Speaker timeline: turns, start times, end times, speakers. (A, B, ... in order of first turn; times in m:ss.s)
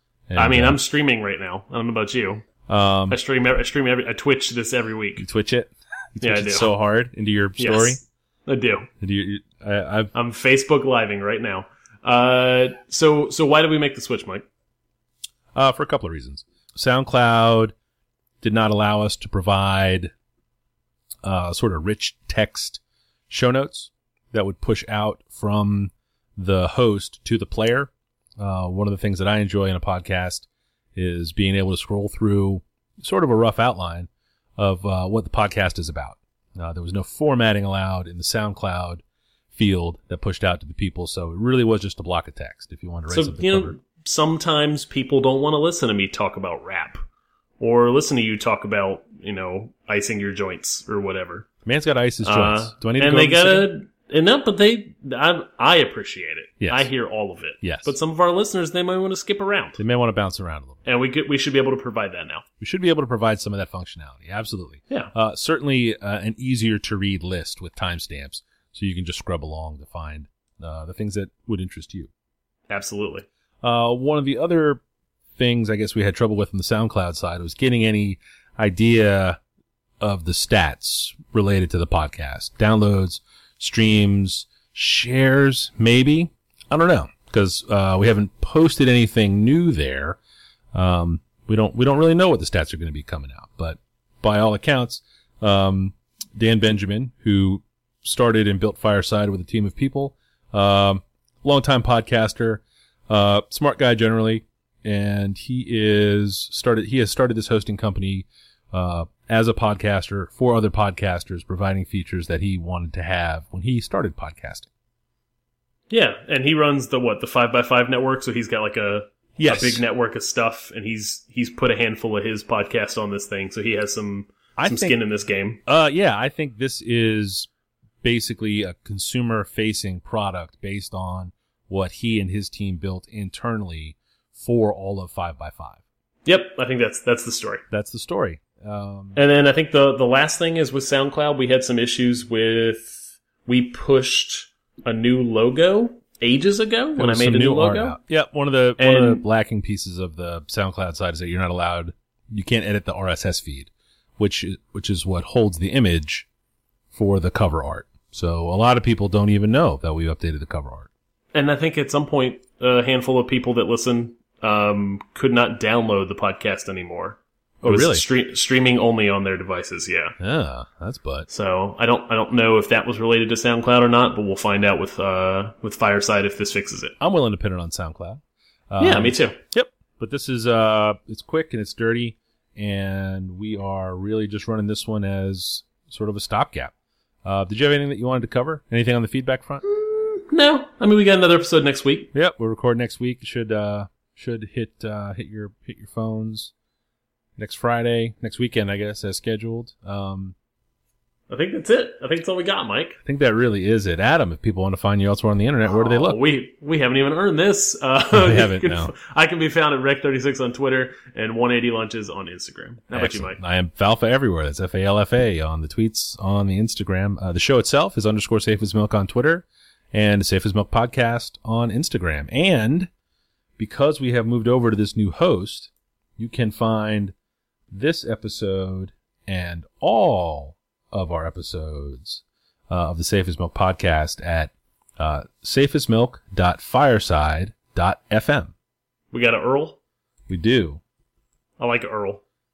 0:00.3-0:00.8 A
0:00.4-0:02.5 B
0:02.7-0:03.2 A
0:03.1-0:05.2 B
0:05.2-0:08.0 A
0:06.2-0:06.7 B
0:07.6-0:08.9 B
0:09.0-0:10.1 A
0:10.1-0:14.4 B
0:15.6-0:17.7 A
0:18.4-0:20.1 A
0:21.2-0:43.8 A
0:43.1-0:47.0 B
0:47.6-0:51.5 B
0:51.6-0:53.7 A
0:52.2-0:59.8 B
0:56.6-0:56.9 A
0:57.6-0:58.0 A
0:59.8-1:00.8 A
1:00.8-1:02.4 B
1:02.6-1:12.1 A
1:12.7-1:13.3 B
1:13.6-1:14.8 A
1:15.4-1:19.4 A
1:20.0-1:30.2 A
1:30.7-1:54.7 A
1:55.9-2:05.6 B
1:59.4-1:59.8 A
2:04.6-2:05.0 A
2:05.7-2:07.5 A
2:08.0-2:15.8 A
2:16.2-2:17.6 B
2:17.7-2:19.2 A
2:19.2-2:28.0 B
2:27.0-2:36.3 A
2:28.8-2:29.2 B
2:36.9-2:40.9 A
2:41.3-2:50.2 B
2:47.6-2:48.0 A
2:50.2-2:51.3 A
2:51.3-2:56.9 B
2:57.0-3:06.7 A
2:58.8-2:59.4 B
3:07.2-3:09.6 A
3:09.7-3:12.1 B
3:12.1-3:16.5 A
3:17.4-3:20.4 A
3:21.3-3:23.0 B
3:23.0-3:26.2 A
3:25.7-3:33.4 B
3:28.1-3:28.9 A
3:32.9-3:42.9 A
3:43.6-3:47.1 A
3:47.7-3:58.5 A
3:59.1-3:59.8 B
4:00.3-4:00.8 A
4:01.6-4:02.2 B